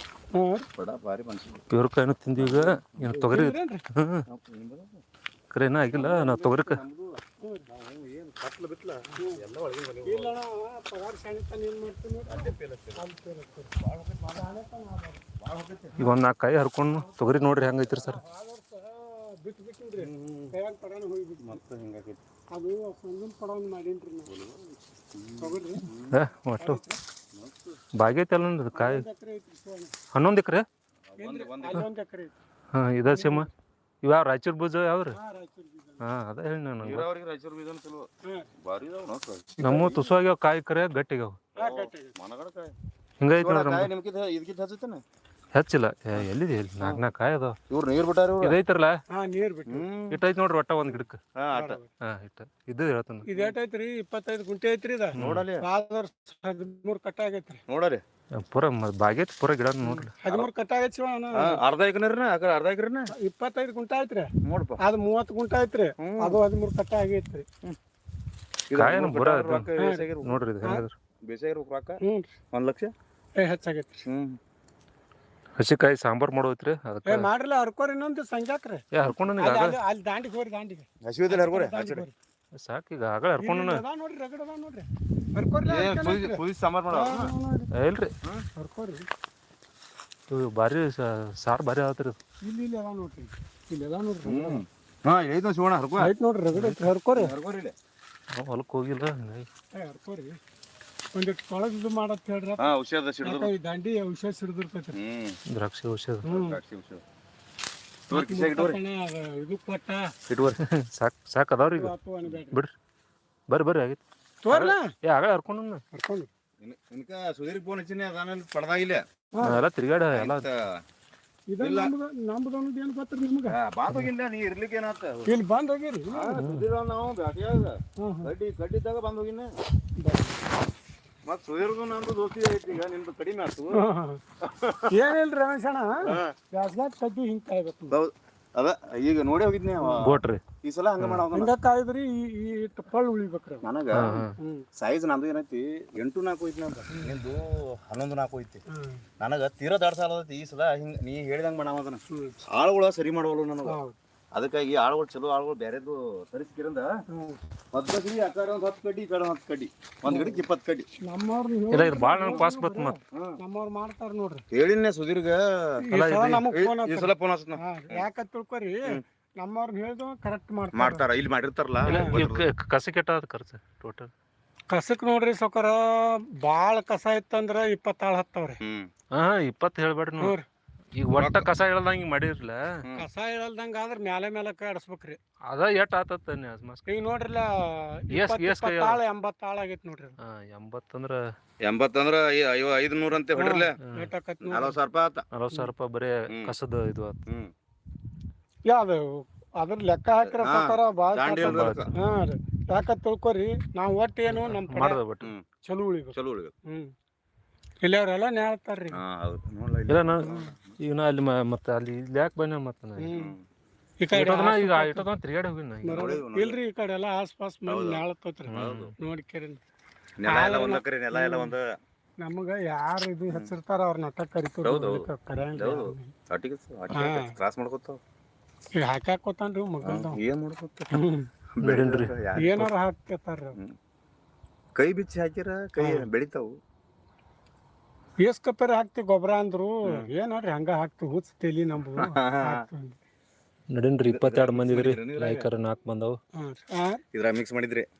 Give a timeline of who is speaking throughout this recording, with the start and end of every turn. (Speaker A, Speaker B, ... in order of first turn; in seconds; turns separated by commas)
Speaker A: 0.3-0.7, Speaker B: 0.8-1.7, Speaker C: 1.7-4.2, Speaker B: 2.4-2.8, Speaker A: 3.1-3.8, Speaker B: 4.3-5.0, Speaker C: 5.5-6.8, Speaker B: 5.9-10.3, Speaker A: 7.4-7.7, Speaker A: 10.0-13.7, Speaker B: 12.3-13.0, Speaker B: 13.8-14.4, Speaker A: 14.3-15.2, Speaker B: 15.4-16.0, Speaker C: 16.0-18.2, Speaker A: 17.0-21.6, Speaker B: 20.0-20.5, Speaker B: 21.4-22.2, Speaker A: 22.5-24.3, Speaker B: 24.3-26.1, Speaker A: 25.4-25.9, Speaker C: 26.1-26.8, Speaker A: 26.6-27.0, Speaker B: 27.3-27.8, Speaker C: 28.0-29.0, Speaker A: 28.7-29.9, Speaker C: 30.1-30.6, Speaker B: 31.1-31.8, Speaker A: 31.2-32.3, Speaker C: 32.7-33.5, Speaker A: 33.1-33.5, Speaker C: 34.0-35.2, Speaker A: 35.1-36.1, Speaker C: 36.0-37.0, Speaker B: 36.8-38.1, Speaker B: 38.6-40.0, Speaker C: 39.6-41.4, Speaker A: 41.5-42.1, Speaker B: 41.5-42.7, Speaker C: 43.2-43.9, Speaker B: 43.4-45.0, Speaker C: 45.5-47.5, Speaker B: 47.7-48.5, Speaker C: 48.4-48.9, Speaker A: 49.1-49.9, Speaker B: 49.7-50.2, Speaker C: 50.1-51.2, Speaker B: 51.4-51.8, Speaker A: 51.5-51.9, Speaker C: 52.1-53.3, Speaker A: 53.2-57.6, Speaker B: 55.1-55.6, Speaker C: 55.2-55.4, Speaker B: 57.7-58.0, Speaker C: 58.4-60.1, Speaker B: 59.8-60.5, Speaker A: 60.2-61.6, Speaker B: 61.4-63.1, Speaker A: 63.1-64.3, Speaker B: 64.4-64.8, Speaker A: 64.8-67.5, Speaker B: 66.0-66.4, Speaker B: 68.7-70.4, Speaker C: 68.7-69.7, Speaker A: 69.8-70.1, Speaker C: 70.2-70.9, Speaker B: 71.2-72.0, Speaker A: 72.0-72.3, Speaker B: 72.5-72.9, Speaker A: 73.4-74.0, Speaker B: 74.1-74.4, Speaker C: 75.6-77.3, Speaker A: 77.0-78.8, Speaker C: 78.9-79.7, Speaker A: 79.3-82.1, Speaker B: 81.0-82.0, Speaker C: 82.6-83.8, Speaker A: 83.4-87.7, Speaker B: 85.6-87.3, Speaker C: 87.7-88.1, Speaker A: 88.6-89.0, Speaker C: 90.3-92.2, Speaker A: 92.4-94.6, Speaker B: 94.2-96.1, Speaker A: 96.0-97.3, Speaker C: 96.5-96.8, Speaker B: 97.1-97.7, Speaker C: 98.3-99.5, Speaker A: 99.7-100.4, Speaker A: 101.1-105.0, Speaker B: 102.6-103.5, Speaker B: 104.9-105.4, Speaker C: 105.5-106.3, Speaker A: 106.2-106.6, Speaker B: 106.3-107.0, Speaker A: 108.1-110.1, Speaker B: 108.1-108.8, Speaker B: 110.3-110.6, Speaker C: 110.7-111.9, Speaker A: 111.7-112.6, Speaker C: 113.5-114.0, Speaker A: 114.4-114.9, Speaker C: 114.5-115.8, Speaker A: 115.9-116.3, Speaker B: 116.6-119.0, Speaker A: 119.3-119.6, Speaker C: 119.4-120.4, Speaker B: 120.1-120.8, Speaker A: 121.5-123.6, Speaker B: 121.6-121.9, Speaker B: 123.5-125.3, Speaker A: 125.2-126.4, Speaker B: 126.1-129.5, Speaker C: 126.4-126.6, Speaker A: 128.0-128.3, Speaker A: 130.0-130.4, Speaker B: 131.2-133.8, Speaker A: 133.7-134.2, Speaker B: 134.4-135.0, Speaker A: 134.9-138.0, Speaker B: 136.0-136.3, Speaker B: 137.9-141.5, Speaker A: 139.8-140.1, Speaker C: 140.0-140.4, Speaker C: 141.0-141.2, Speaker A: 141.3-143.7, Speaker B: 143.6-144.2, Speaker C: 143.9-144.3, Speaker A: 144.4-144.7, Speaker B: 144.8-148.6, Speaker A: 146.9-147.2, Speaker A: 148.7-149.0, Speaker B: 149.2-153.8, Speaker A: 152.1-152.4, Speaker A: 153.6-153.9, Speaker B: 154.3-156.9, Speaker A: 157.1-157.4, Speaker B: 157.7-160.9, Speaker A: 160.1-160.4, Speaker A: 161.0-164.4, Speaker C: 161.7-163.0, Speaker B: 163.1-163.4, Speaker B: 164.5-165.8, Speaker A: 165.8-171.0, Speaker C: 165.9-166.4, Speaker B: 166.5-168.0, Speaker B: 170.7-172.4, Speaker C: 171.8-174.1, Speaker A: 171.9-172.2, Speaker A: 174.7-178.6, Speaker B: 178.6-178.9, Speaker C: 179.1-180.3, Speaker A: 180.2-180.4, Speaker C: 180.9-182.6, Speaker B: 181.2-181.5, Speaker A: 182.9-185.2, Speaker C: 185.5-186.8, Speaker A: 186.9-190.2, Speaker C: 188.1-189.0, Speaker C: 190.2-191.2, Speaker B: 191.6-193.7, Speaker A: 193.3-194.8, Speaker C: 193.8-194.1, Speaker B: 194.4-195.2, Speaker C: 195.3-197.2, Speaker B: 196.3-196.5, Speaker B: 197.3-197.5, Speaker A: 198.7-205.0, Speaker B: 200.2-201.9, Speaker C: 201.4-202.2, Speaker C: 204.3-205.3, Speaker A: 205.6-206.2, Speaker B: 206.1-206.5, Speaker A: 206.7-206.9, Speaker A: 207.8-209.0, Speaker B: 208.9-210.7, Speaker C: 209.9-213.1, Speaker A: 210.2-210.5, Speaker A: 213.0-213.3, Speaker B: 213.1-213.4, Speaker A: 214.0-215.1, Speaker C: 214.1-216.0, Speaker A: 215.8-219.6, Speaker B: 215.9-216.6, Speaker B: 217.7-218.9, Speaker C: 218.5-218.9, Speaker B: 220.2-221.6, Speaker A: 220.2-221.5, Speaker A: 222.2-226.1, Speaker B: 224.6-228.0, Speaker A: 226.9-227.3, Speaker A: 228.8-230.2, Speaker B: 229.8-231.0, Speaker A: 230.9-231.3, Speaker B: 231.5-232.6, Speaker C: 231.6-232.7, Speaker A: 232.4-233.6, Speaker B: 234.8-236.5, Speaker A: 235.8-236.1, Speaker A: 238.2-242.9, Speaker B: 241.9-242.6, Speaker C: 243.7-246.2, Speaker B: 244.1-245.5, Speaker A: 246.4-247.0, Speaker B: 247.1-247.9